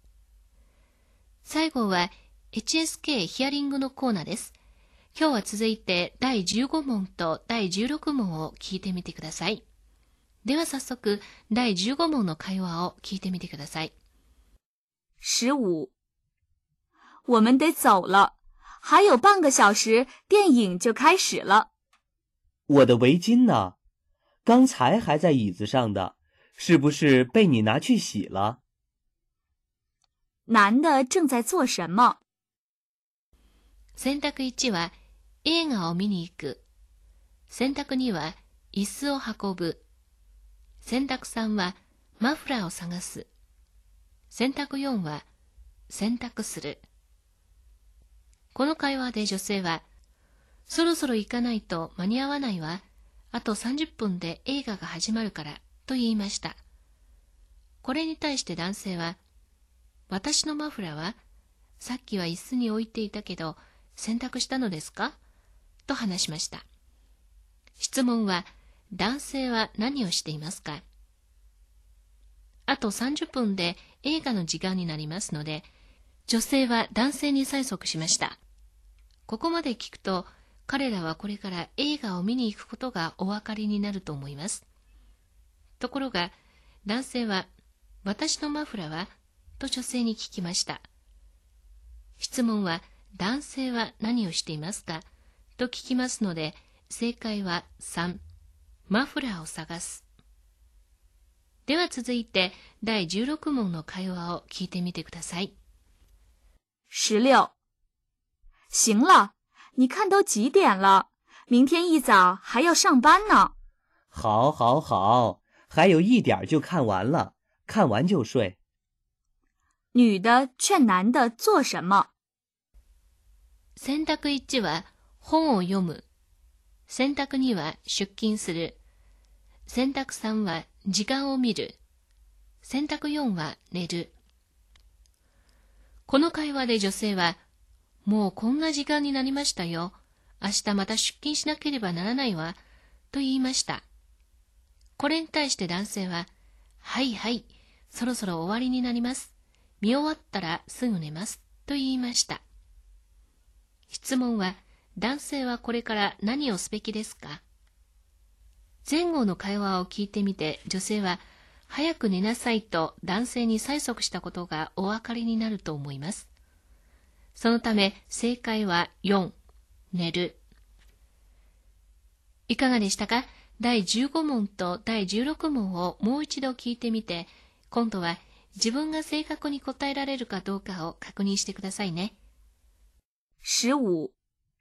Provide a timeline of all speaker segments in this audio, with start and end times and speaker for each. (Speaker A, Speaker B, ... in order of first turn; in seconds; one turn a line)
Speaker A: 1.4-4.5
Speaker A: 5.1-9.6
Speaker A: 10.4-13.9
Speaker B: 15.2-15.9
Speaker B: 17.3-21.7
Speaker C: 22.7-23.8
Speaker C: 24.5-28.6
Speaker B: 30.5-32.2
Speaker A: 34.0-36.6
Speaker A: 37.5-39.8
Speaker A: 40.8-43.3
Speaker A: 44.3-45.3
Speaker A: 45.9-46.8
Speaker A: 48.5-49.9
Speaker A: 50.7-56.6
Speaker A: 57.8-59.2
Speaker A: 60.1-61.2
Speaker A: 61.8-65.2
Speaker A: 65.9-66.6
Speaker A: 67.8-70.8
Speaker A: 72.7-75.7
Speaker A: 76.3-78.4
Speaker A: 79.3-84.7
Speaker A: 85.8-86.3
Speaker A: 86.8-87.5
Speaker A: 88.0-90.9
Speaker A: 92.2-98.2
Speaker A: 98.9-100.0
Speaker A: 101.7-105.5
Speaker B: 106.9-107.5
Speaker B: 108.7-113.5
Speaker C: 114.1-118.6
Speaker B: 119.9-122.1
Speaker A: 123.8-126.0
Speaker A: 126.9-128.8
Speaker A: 129.7-131.8
Speaker A: 132.6-134.1
Speaker A: 136.1-137.4
Speaker A: 138.1-142.6
Speaker A: 143.1-143.8
Speaker A: 145.0-146.3
Speaker A: 146.8-152.4
Speaker A: 153.9-157.4
Speaker A: 158.8-166.3
Speaker A: 167.3-169.3
Speaker A: 169.9-170.4
Speaker A: 172.5-182.2
Speaker B: 183.4-184.1